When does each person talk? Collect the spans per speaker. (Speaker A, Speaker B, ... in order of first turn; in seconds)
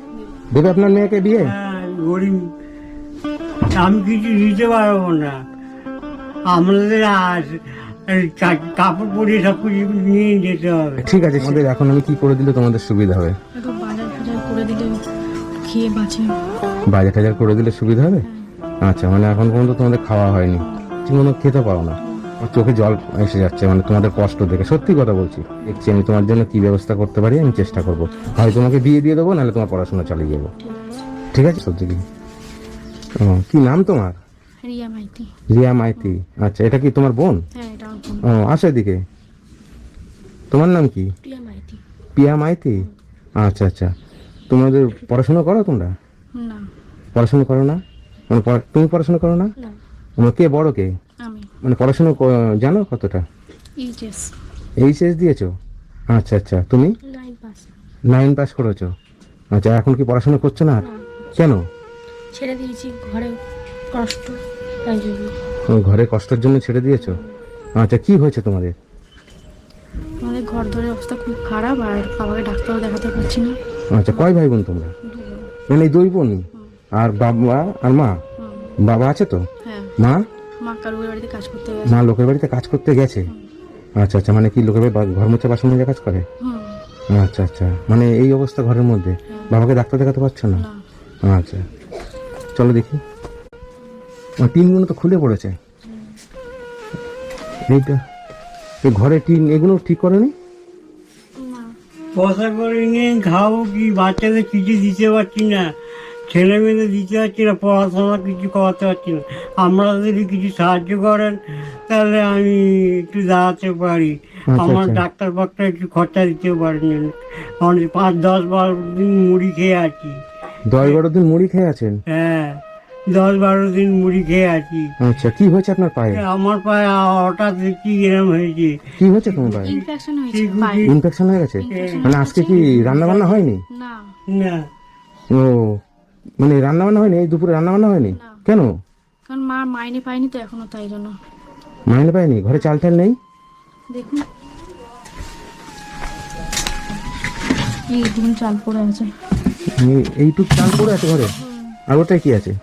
Speaker A: 0.5-1.5, 11.0-13.3, 16.9-18.3, 18.8-30.5, 31.3-32.0, 33.2-34.2, 35.5-37.4, 38.3-39.0, 40.5-41.1, 42.2-42.9, 43.4-43.9, 44.5-45.9, 47.1-49.5, 50.2-50.9, 51.6-53.2, 54.8-55.5, 56.1-56.9, 58.1-58.9, 59.5-60.8, 61.4-61.6, 65.7-67.2, 67.8-68.7, 73.9-74.9, 75.7-76.5, 77.0-78.2, 78.8-79.5, 81.9-83.3, 84.0-86.2, 87.1-90.6, 91.3-91.6, 92.6-93.0, 94.4-95.6, 97.7-98.0, 98.8-100.3, 114.5-115.0, 120.7-122.0, 125.0-126.2, 129.0-129.7, 130.9-133.6, 135.3-135.8, 136.4-138.7, 141.9-143.2, 149.8-151.3, 151.9-152.6
Speaker B: 1.4-2.4, 3.8-5.3, 6.5-11.6, 102.2-105.7, 106.3-120.2, 122.1-122.6, 123.1-124.9, 126.1-131.0, 131.7-133.5, 134.3-134.7
Speaker C: 13.6-15.0, 15.7-16.4, 18.2-18.5, 20.6-21.0, 22.0-22.3, 34.6-35.3, 37.5-38.3, 46.4-46.7, 51.2-51.5, 53.8-54.3, 62.3-63.4, 63.9-65.3, 67.0-67.3, 70.2-73.6, 75.0-75.5, 78.4-78.8, 79.6-79.9, 80.6-82.0, 86.4-86.8, 89.3-89.6, 90.6-90.8, 101.4-101.7, 129.6-130.9, 131.6-132.6, 133.7-134.1, 138.1-138.4, 139.3-141.1, 143.9-144.3, 147.9-149.1, 151.4-151.8